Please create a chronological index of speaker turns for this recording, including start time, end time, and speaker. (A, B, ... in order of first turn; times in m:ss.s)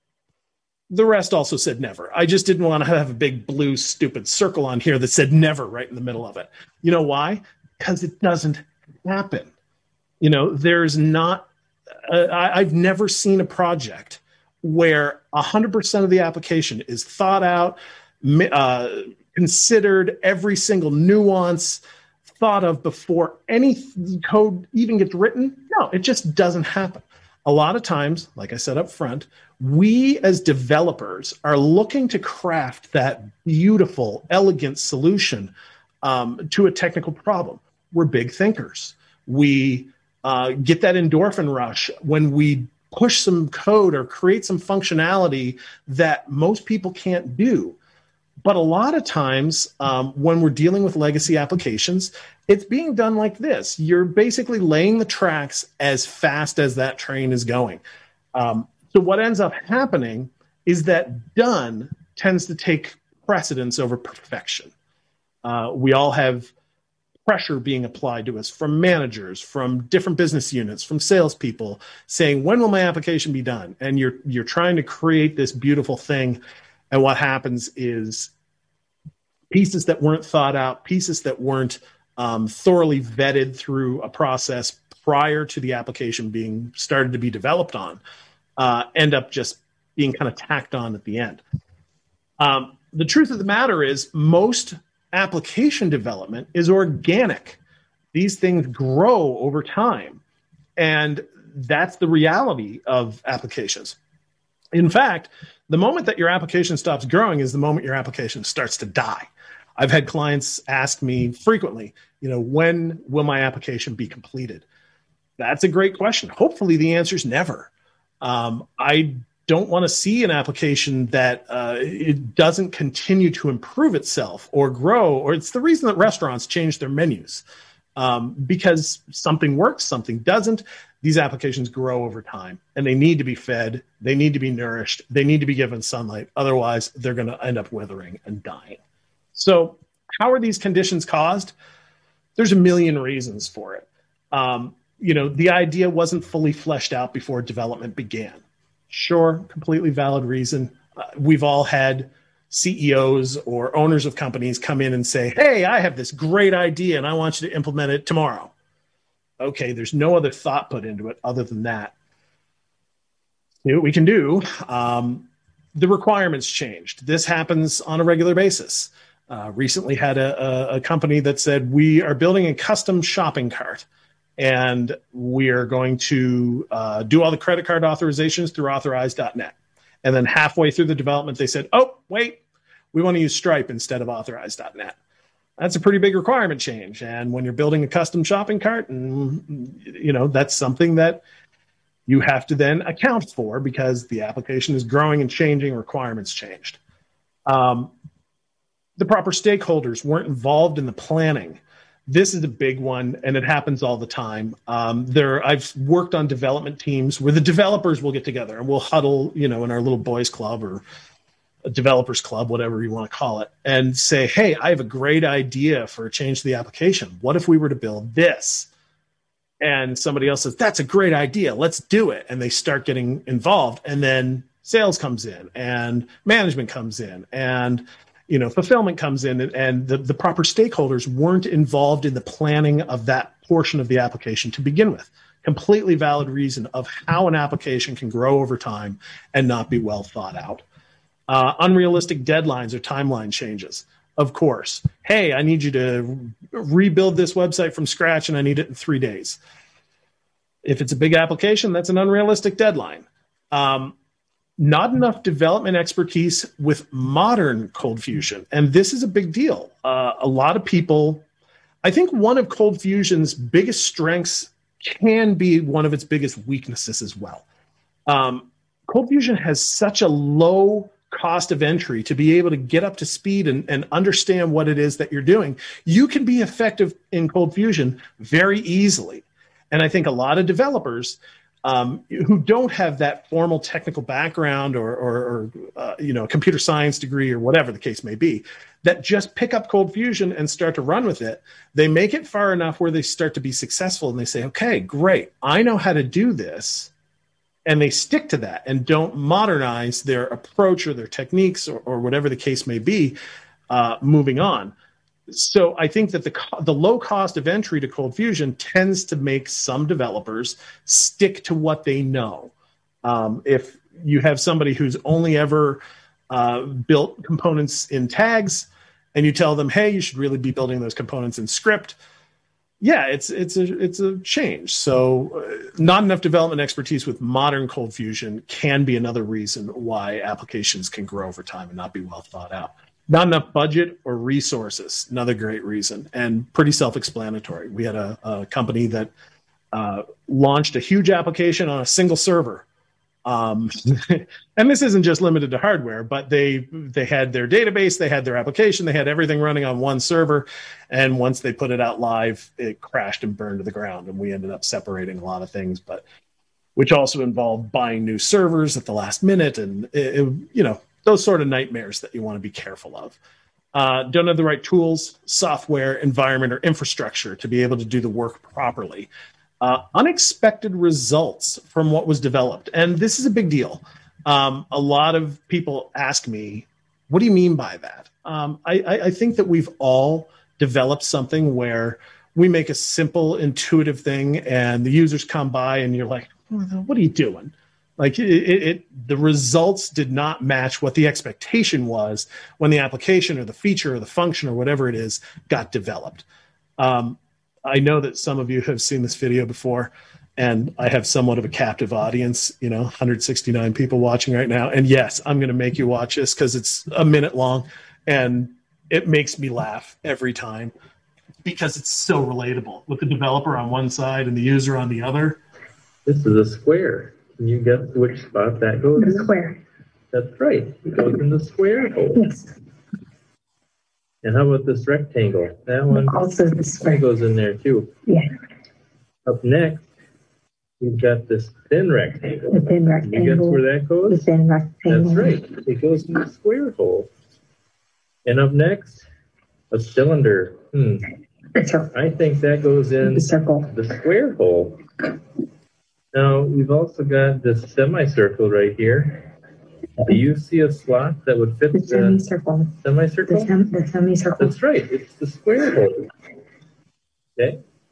0:00.9-0:09.5 A
0:10.2-0:11.5 A
0:12.0-0:21.8 A
0:22.4-0:35.5 A
0:36.0-0:47.8 A
0:48.4-0:57.8 A
0:58.3-1:04.7 A
1:05.4-1:06.5 A
1:07.2-1:16.4 A
1:16.9-1:18.3 A
1:19.5-1:28.0 A
1:28.6-1:31.4 A
1:32.4-1:37.6 A
1:38.1-1:40.2 A
1:40.8-1:44.0 A
1:44.7-1:54.6 A
1:55.4-1:57.7 A
1:58.2-2:07.4 A
2:08.0-2:18.8 A
2:19.3-2:21.5 A
2:22.4-2:38.5 A
2:39.4-2:41.9 A
2:43.6-2:53.8 A
2:54.4-3:02.4 A
3:02.9-3:05.0 A
3:05.6-3:11.2 A
3:12.1-3:16.8 A
3:17.5-3:17.9 A
3:19.0-3:30.8 A
3:31.7-3:38.7 A
3:39.6-4:00.6 A
4:01.3-4:09.4 A
4:10.6-4:13.9 A
4:14.6-4:21.2 A
4:21.8-4:27.4 A
4:28.1-4:56.9 A
4:57.6-5:03.1 A
5:03.7-5:04.7 A
5:05.3-5:12.5 A
5:13.0-5:22.0 A
5:22.8-5:39.1 A
5:39.7-5:42.6 A
5:43.2-5:56.0 A
5:56.8-6:03.2 A
6:03.7-6:09.1 A
6:09.6-6:36.2 A
6:36.8-6:50.7 A
6:51.4-6:55.4 A
6:56.0-6:59.3 B
6:59.0-6:59.6 C
7:00.1-7:02.3 B
7:02.1-7:02.5 C
7:04.2-7:06.3 B
7:05.9-7:07.0 C
7:06.8-7:07.9 B
7:08.0-7:08.3 C
7:09.2-7:09.8 B
7:10.8-7:14.2 B
7:12.5-7:15.5 C
7:14.9-7:17.1 B
7:18.2-7:19.0 B
7:19.7-7:21.1 B
7:21.5-7:21.9 C
7:21.9-7:24.8 B
7:23.0-7:23.7 C
7:26.1-7:29.3 B
7:30.0-7:32.2 B
7:31.7-7:32.8 C
7:32.8-7:33.5 B
7:33.3-7:34.5 C
7:34.4-7:36.1 B
7:37.4-7:37.6 B